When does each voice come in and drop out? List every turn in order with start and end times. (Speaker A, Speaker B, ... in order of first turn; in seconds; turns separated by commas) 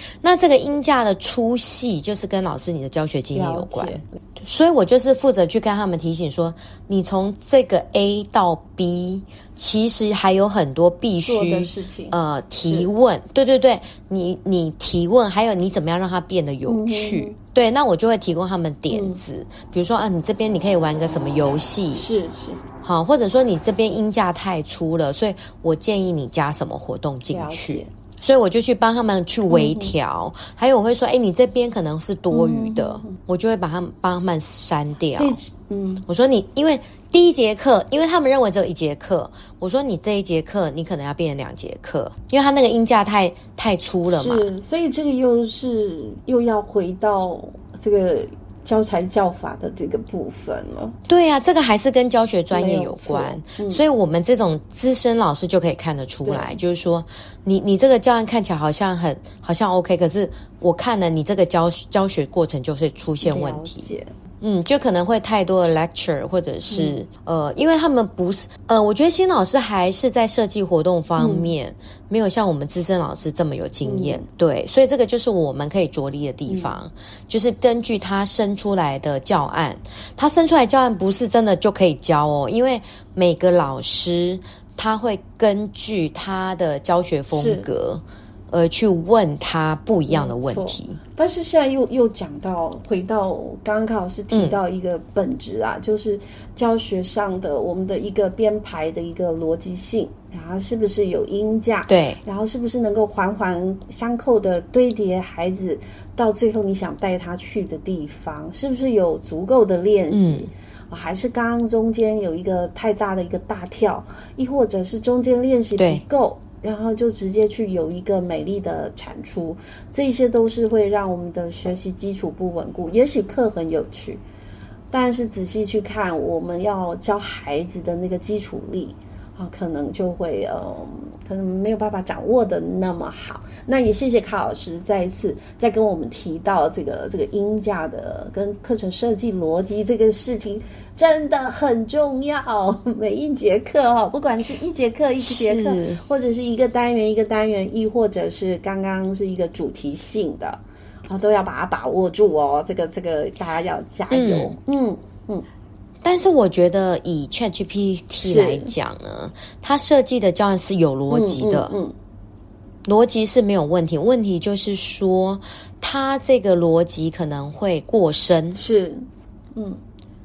Speaker A: 0.2-22.0, Speaker B: 3.3-4.1, Speaker B: 11.2-12.9, Speaker B: 16.6-17.4, Speaker B: 18.9-19.2, Speaker B: 21.9-22.6, Speaker A: 22.8-35.4, Speaker B: 27.3-27.9, Speaker B: 29.5-29.9, Speaker B: 32.3-33.2, Speaker B: 35.1-36.0, Speaker A: 36.0-44.5, Speaker B: 44.1-51.0, Speaker A: 51.1-63.9, Speaker B: 52.5-53.8, Speaker B: 56.2-56.6, Speaker B: 63.2-64.1, Speaker A: 64.4-91.0, Speaker B: 66.7-67.0, Speaker B: 71.2-71.5, Speaker B: 73.8-74.2, Speaker B: 76.5-76.7, Speaker B: 87.3-87.7, Speaker B: 90.1-124.2, Speaker A: 94.3-94.6, Speaker A: 101.9-102.2, Speaker A: 110.1-110.5, Speaker A: 115.8-116.0, Speaker B: 124.9-155.4, Speaker A: 145.2-146.0, Speaker A: 154.1-154.5, Speaker A: 156.0-161.7, Speaker B: 158.2-158.7, Speaker B: 161.1-161.9, Speaker A: 162.8-168.6, Speaker B: 168.5-169.8